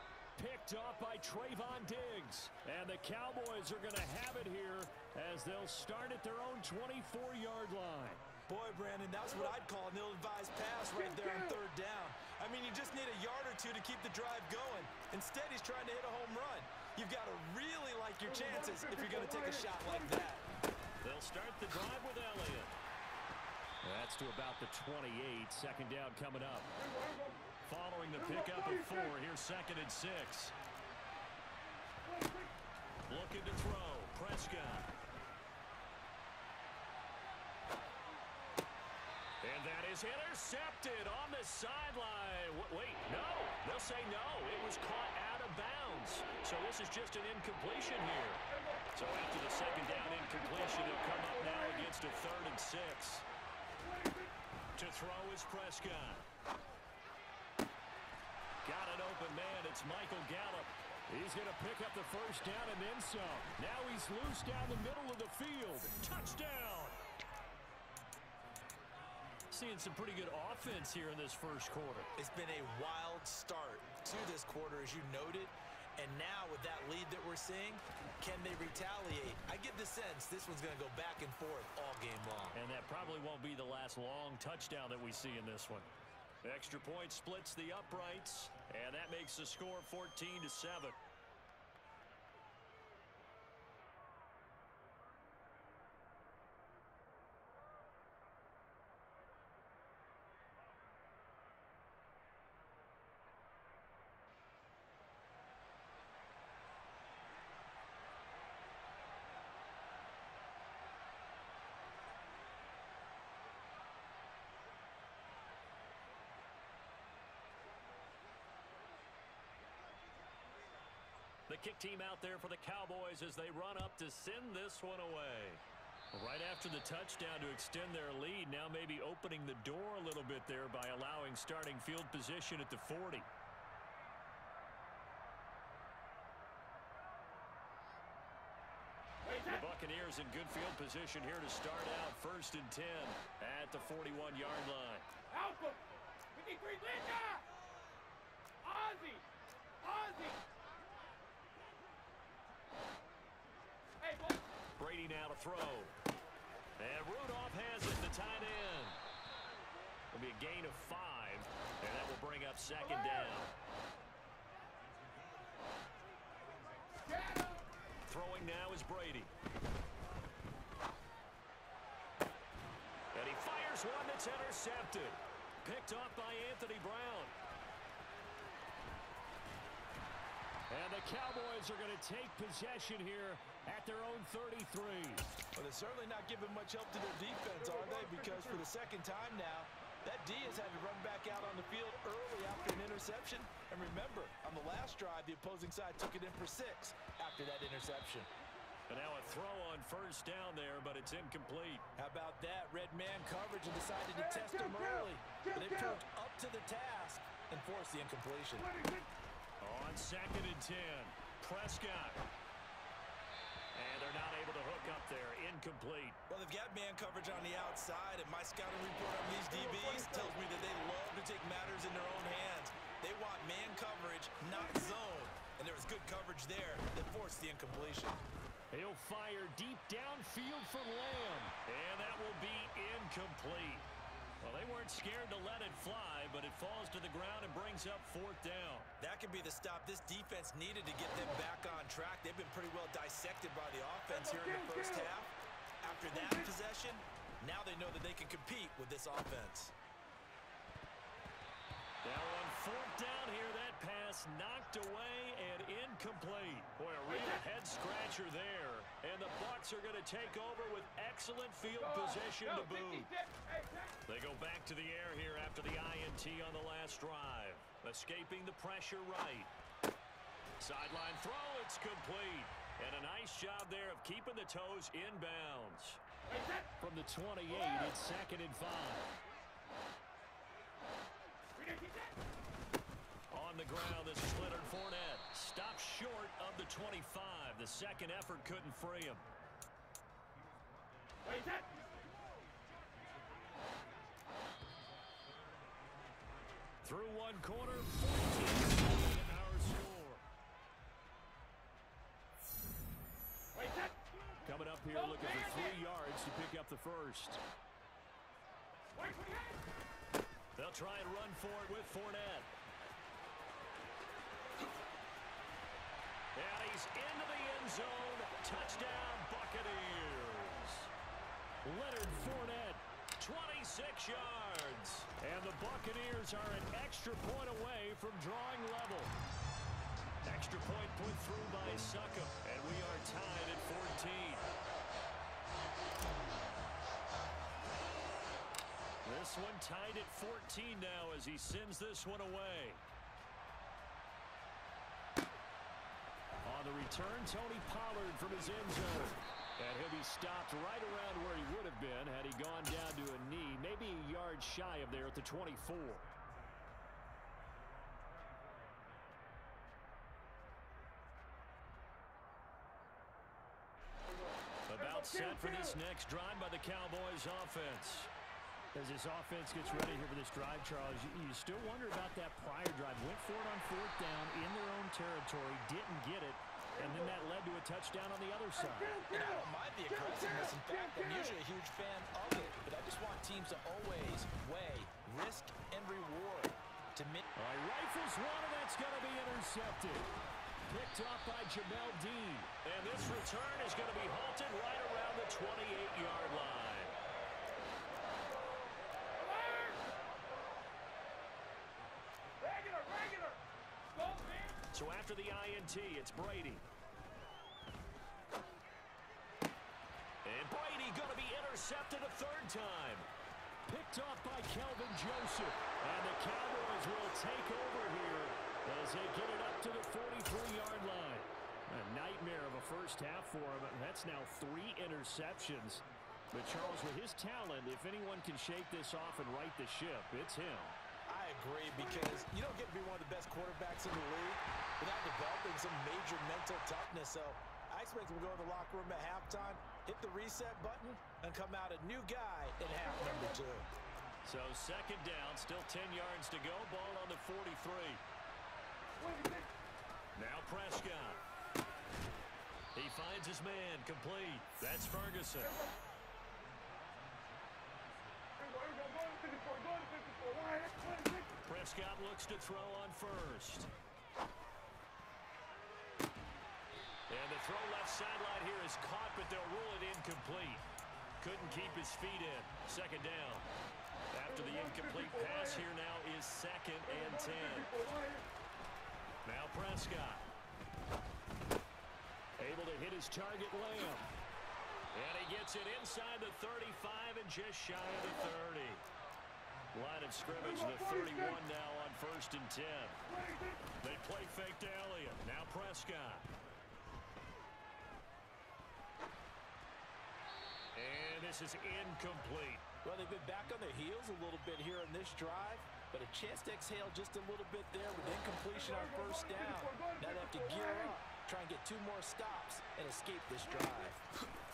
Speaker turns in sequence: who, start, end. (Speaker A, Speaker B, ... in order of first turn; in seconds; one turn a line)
Speaker A: 0.4-8.2
Speaker B: 8.5-20.5
Speaker A: 21.0-22.8
Speaker A: 23.8-26.7
Speaker A: 27.6-30.5
Speaker A: 33.1-34.9
Speaker A: 39.4-48.4
Speaker A: 48.9-53.2
Speaker A: 54.8-56.3
Speaker A: 58.6-67.0
Speaker A: 69.5-72.1
Speaker B: 72.2-82.6
Speaker A: 82.5-85.9
Speaker A: 86.4-91.0
Speaker A: 121.5-125.6
Speaker A: 126.1-133.3
Speaker A: 139.4-145.1
Speaker C: 145.3-145.8
Speaker C: 146.3-147.4
Speaker C: 148.6-149.2
Speaker C: 149.8-150.4
Speaker C: 154.0-154.4
Speaker A: 154.8-155.9
Speaker A: 156.8-159.0
Speaker A: 160.1-163.5
Speaker C: 167.0-167.6
Speaker A: 168.1-169.3
Speaker A: 173.1-177.3
Speaker A: 180.7-185.2
Speaker B: 185.6-198.3
Speaker A: 198.9-201.8
Speaker B: 202.0-208.8
Speaker A: 209.6-212.3
Speaker A: 213.7-216.2
Speaker B: 216.3-228.2
Speaker A: 228.7-233.9
Speaker A: 234.4-238.9
Speaker B: 239.0-249.7
Speaker A: 252.0-263.1
Speaker C: 261.8-264.0
Speaker A: 264.1-269.5
Speaker A: 270.6-276.0
Speaker C: 276.3-276.6
Speaker A: 276.8-279.1
Speaker C: 281.6-282.1
Speaker A: 283.3-289.3
Speaker C: 291.3-291.6
Speaker A: 296.8-300.2
Speaker C: 303.5-304.0
Speaker A: 304.4-307.4
Speaker C: 305.1-305.7
Speaker C: 308.9-309.6
Speaker A: 310.6-312.5
Speaker A: 316.4-320.9
Speaker A: 321.6-329.1
Speaker A: 330.2-334.5
Speaker A: 339.0-342.8
Speaker A: 346.4-356.1
Speaker A: 364.7-368.1
Speaker A: 368.7-379.1
Speaker B: 379.1-387.2
Speaker A: 387.4-390.1
Speaker A: 390.7-397.0
Speaker C: 399.2-399.9
Speaker C: 402.4-403.4
Speaker C: 403.9-404.6
Speaker A: 404.7-406.6
Speaker A: 410.2-413.1
Speaker A: 413.7-430.8
Speaker B: 431.1-443.7
Speaker A: 444.2-448.0
Speaker A: 450.2-451.2
Speaker A: 452.7-455.6
Speaker A: 461.4-463.7
Speaker A: 467.1-470.6
Speaker A: 471.2-473.5
Speaker A: 474.1-477.9
Speaker A: 479.2-480.3
Speaker A: 482.4-484.1
Speaker A: 484.9-488.8
Speaker A: 489.7-493.0
Speaker A: 493.8-496.3
Speaker A: 500.8-502.7
Speaker B: 502.8-514.0